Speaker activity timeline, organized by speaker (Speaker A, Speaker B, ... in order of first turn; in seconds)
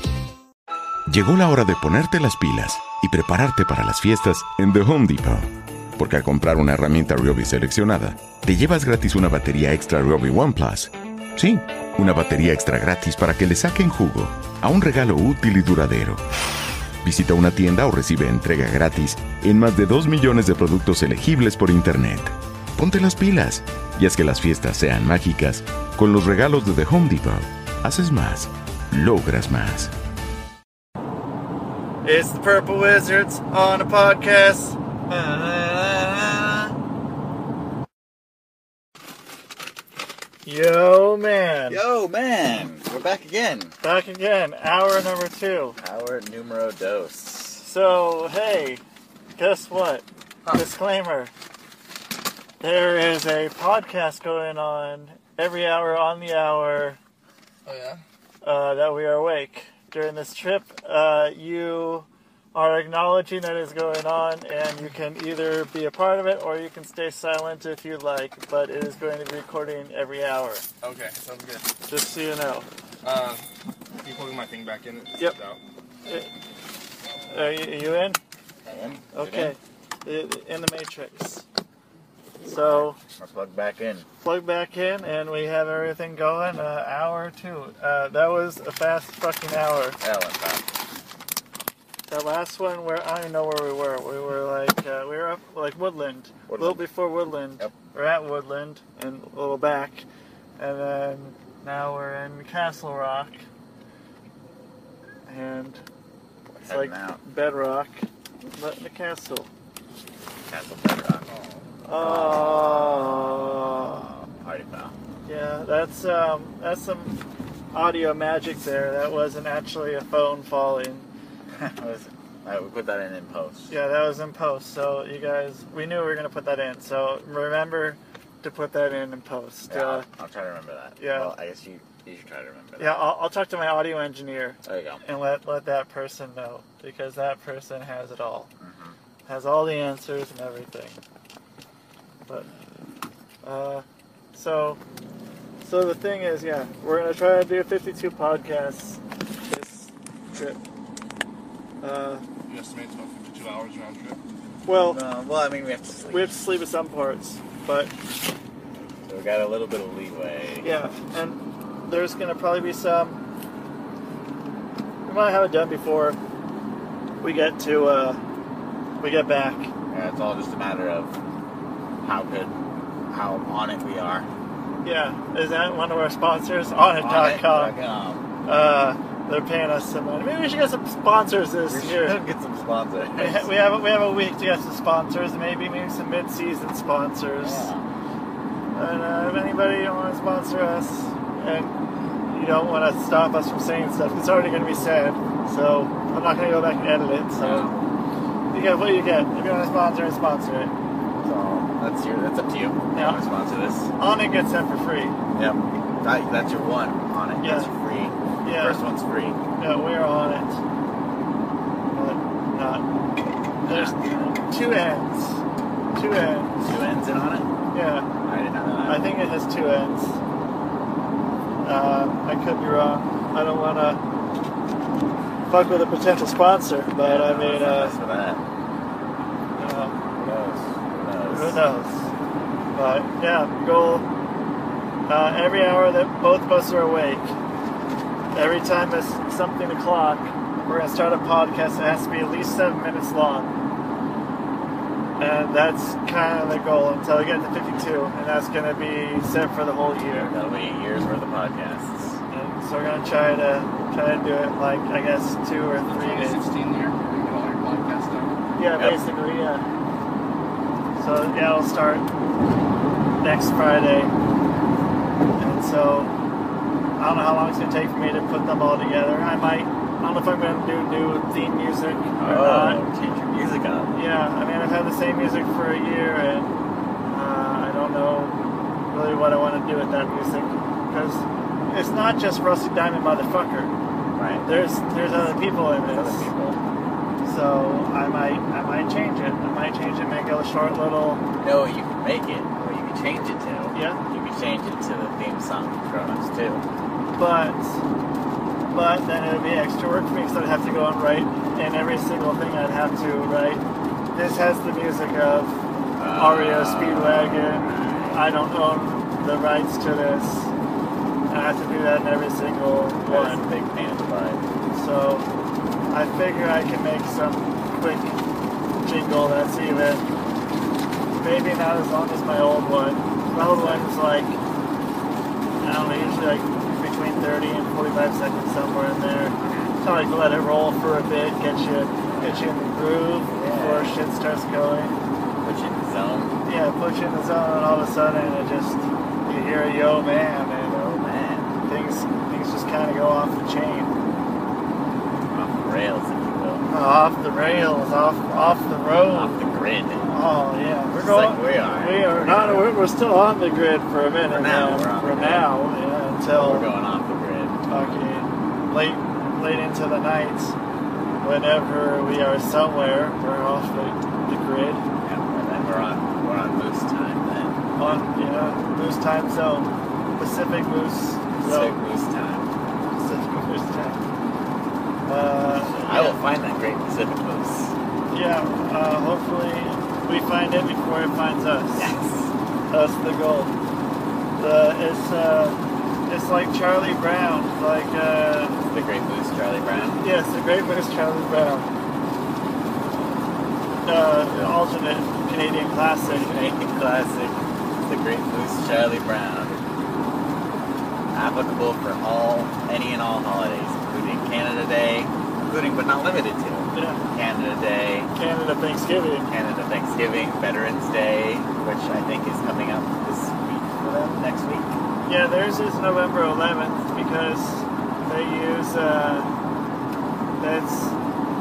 Speaker A: 1.1-16.2, 17.0-29.9
Speaker B: 32.0-34.8, 40.5-41.8, 43.8-45.8, 47.6-48.8, 49.4-51.3, 52.6-57.0, 58.4-70.7, 71.8-72.7, 76.0-76.3, 77.3-78.2, 79.1-81.4, 82.4-83.0, 84.2-90.0, 92.1-100.1, 100.6-103.4, 105.3-105.8, 106.7-109.5, 111.8-114.1, 115.2-121.1, 123.7-130.1, 131.0-131.3, 132.8-138.5, 139.3-141.0, 143.4-144.8, 145.6-150.6, 151.8-152.2, 154.7-155.0, 156.1-157.9, 160.6-163.2, 165.1-166.2, 167.2-168.2, 169.0-169.7, 174.8-177.7, 178.4-182.2, 183.2-187.7, 188.8-191.7, 192.3-197.7, 198.5-200.7, 202.9-203.2, 204.0-205.2, 207.4-207.7, 208.4-208.8, 209.6-210.6, 211.9-212.8, 213.6-215.4, 215.9-216.6, 217.7-218.1, 218.8-220.2, 221.6-224.0, 225.5-228.0, 229.6-230.0, 231.3-232.1, 232.7-234.1, 235.1-237.4, 238.3-243.6, 245.2-250.3, 252.3-256.4, 258.6-259.6, 261.0-262.1, 263.2-264.1, 265.4-266.1, 267.0-272.8, 273.9-276.6, 277.1-278.3, 278.9-283.7, 284.4-286.3, 287.2-291.2, 293.7-294.0, 297.2-297.8, 298.7-303.6, 304.1-305.6, 306.1-310.5, 311.3-313.5, 314.7-315.3, 315.9-318.2, 318.8-320.1, 321.1-324.4, 325.6-335.0, 336.4-340.8, 341.6-343.9, 346.7-349.4, 350.0-356.7, 357.7-360.6, 361.2-364.8, 367.8-371.8, 372.9-374.0, 375.1-376.2, 378.1-381.9, 382.7-383.5, 384.4-388.6, 389.8-391.7, 393.8-396.3, 406.7-407.0, 408.1-409.3, 415.0-419.3, 420.4-420.9
Speaker C: 35.1-36.7, 41.7-43.7, 45.8-47.7, 78.7-79.6, 82.4-84.1, 90.0-90.8, 96.5-96.8, 106.5-107.2, 110.5-111.3, 112.0-114.9, 121.6-123.7, 129.7-133.1, 134.6-135.0, 138.6-138.9, 154.7-156.3, 159.0-160.7, 169.9-171.2, 172.0-172.5, 173.1-174.3, 176.9-178.2, 181.7-183.5, 187.4-187.8, 197.4-197.7, 201.2-203.9, 205.3-209.4, 213.7-214.3, 216.6-217.5, 218.2-219.2, 227.0-228.4, 230.1-231.6, 250.1-252.2, 258.8-259.0, 272.1-273.9, 284.1-284.5, 285.0-286.6, 291.4-296.6, 306.0-308.2, 313.1-314.4, 323.3-323.9, 329.4-329.7, 332.1-332.5, 333.3-334.0, 335.4-336.3, 340.7-341.6, 345.3-346.6, 349.1-350.1, 350.9-352.7, 354.3-355.5, 356.3-357.6, 365.0-367.6, 371.4-372.5, 375.8-377.8, 381.8-382.3, 388.7-390.0, 396.1-399.6, 401.1-408.1, 409.3-414.8
Speaker D: 57.6-58.0, 70.8-71.7, 73.0-75.6, 111.3-111.6, 152.5-154.2, 255.8-258.3